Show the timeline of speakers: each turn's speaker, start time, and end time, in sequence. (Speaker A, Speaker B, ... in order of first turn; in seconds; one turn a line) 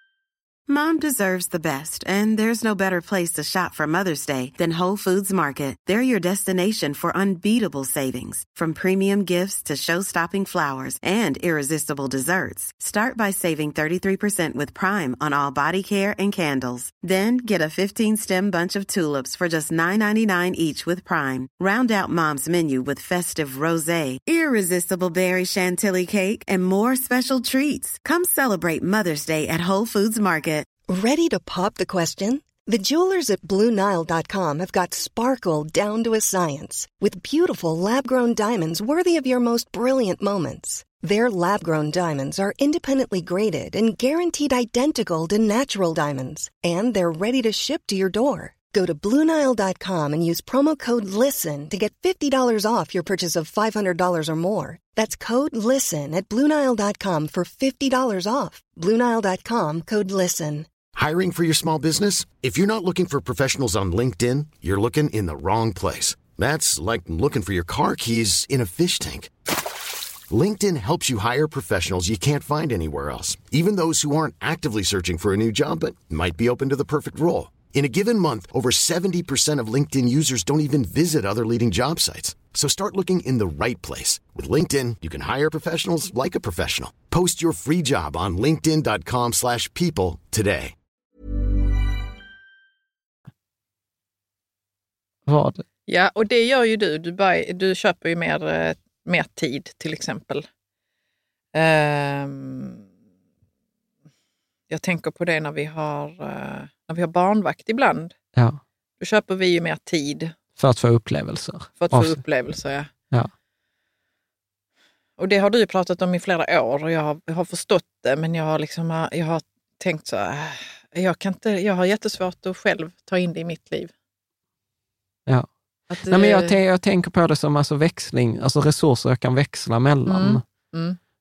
Speaker A: 0.7-30.6
Speaker B: 30.9-60.7
Speaker C: 61.0-69.3
Speaker C: 70.3-90.7
Speaker D: 95.3-95.6
Speaker E: 95.9-100.5
Speaker E: 101.5-102.8
Speaker E: 104.7-108.1
Speaker D: 108.3-108.6
Speaker E: 109.0-110.3
Speaker D: 110.6-112.2
Speaker E: 111.8-112.9
Speaker E: 115.2-123.9
Speaker E: 125.9-126.6
Speaker D: 126.0-130.4
Speaker E: 130.1-131.0